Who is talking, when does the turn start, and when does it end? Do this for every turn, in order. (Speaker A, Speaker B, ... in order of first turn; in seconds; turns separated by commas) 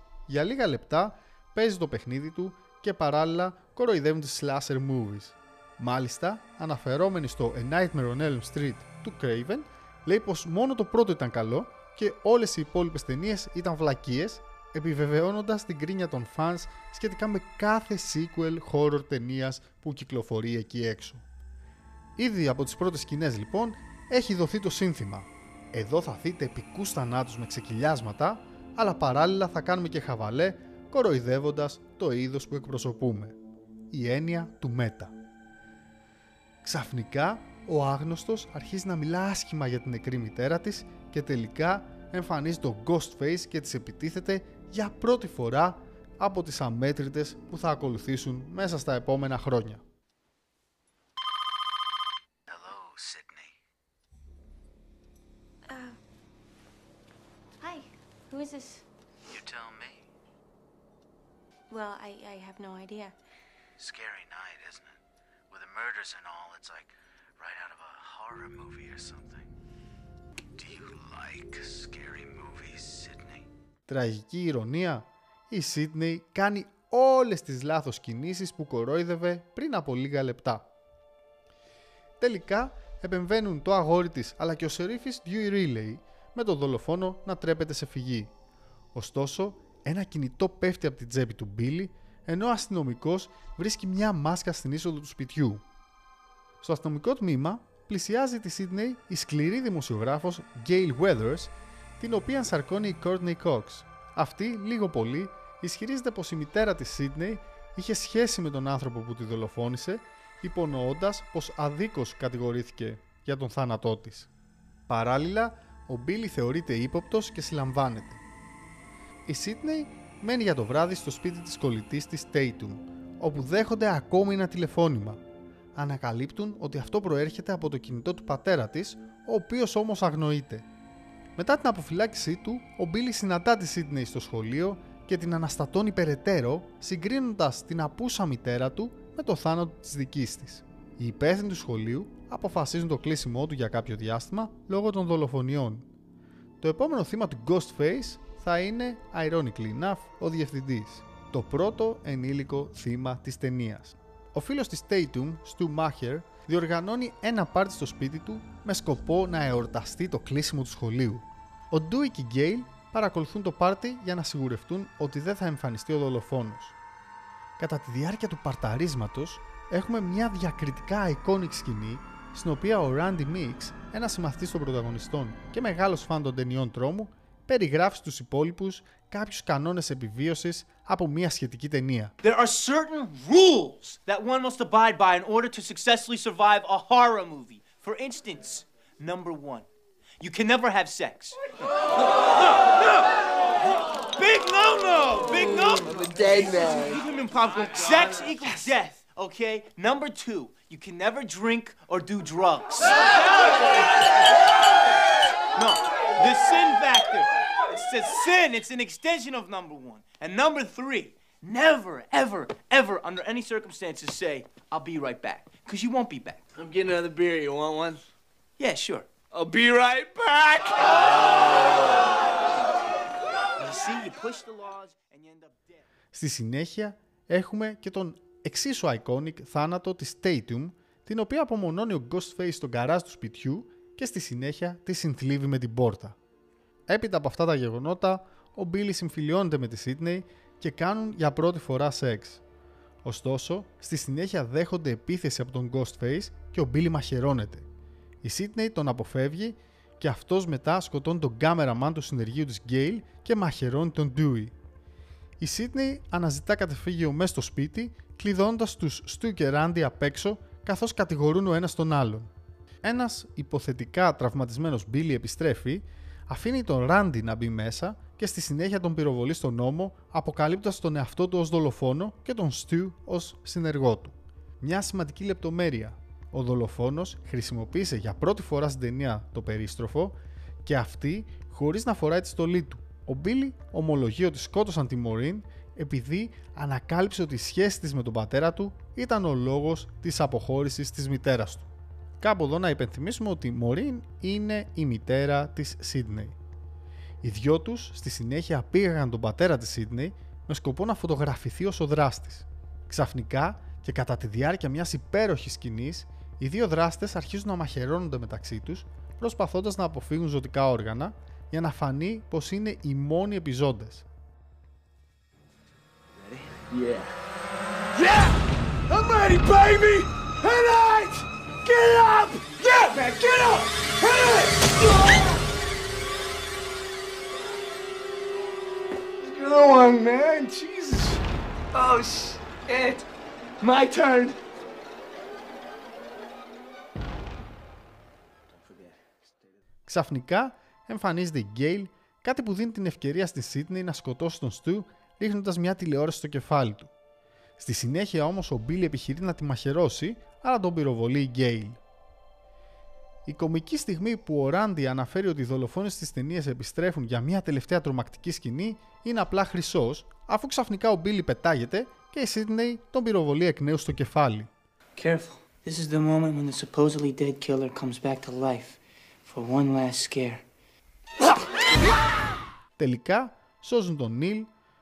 Speaker A: 0.3-21.2, Speaker A: 22.2-33.4, Speaker A: 33.9-35.1, Speaker A: 36.6-49.8, Speaker B: 52.5-53.5, Speaker C: 55.7-56.0, Speaker C: 57.6-58.9, Speaker B: 59.3-60.0, Speaker C: 61.7-63.2, Speaker B: 63.8-65.0, Speaker B: 65.5-69.5, Speaker B: 70.6-73.5, Speaker A: 73.9-80.7, Speaker A: 82.2-88.3, Speaker A: 88.9-95.6, Speaker A: 96.6-114.3, Speaker A: 114.9-118.2, Speaker A: 119.2-125.2, Speaker A: 125.8-130.7, Speaker A: 131.4-145.9, Speaker A: 146.6-166.8, Speaker A: 167.6-182.1, Speaker D: 182.2-189.7, Speaker D: 190.2-191.7, Speaker D: 192.2-193.1, Speaker D: 194.1-203.8, Speaker E: 195.6-197.0, Speaker D: 205.5-216.4, Speaker E: 216.6-218.0, Speaker D: 218.6-219.1, Speaker E: 219.3-221.0, Speaker D: 223.6-225.8, Speaker A: 226.1-236.2, Speaker A: 236.9-242.4, Speaker A: 243.0-247.7, Speaker A: 248.2-254.5, Speaker A: 255.4-262.3, Speaker A: 262.8-291.7, Speaker A: 292.2-296.4, Speaker A: 297.2-314.1, Speaker B: 316.2-316.4, Speaker E: 316.7-317.1, Speaker E: 317.9-318.4, Speaker E: 318.9-325.4, Speaker E: 329.2-331.2, Speaker E: 331.7-333.1, Speaker E: 333.6-334.4, Speaker E: 338.6-338.9, Speaker A: 339.9-346.9, Speaker A: 347.6-351.8, Speaker A: 353.3-364.5, Speaker F: 364.9-370.4, Speaker A: 372.8-374.5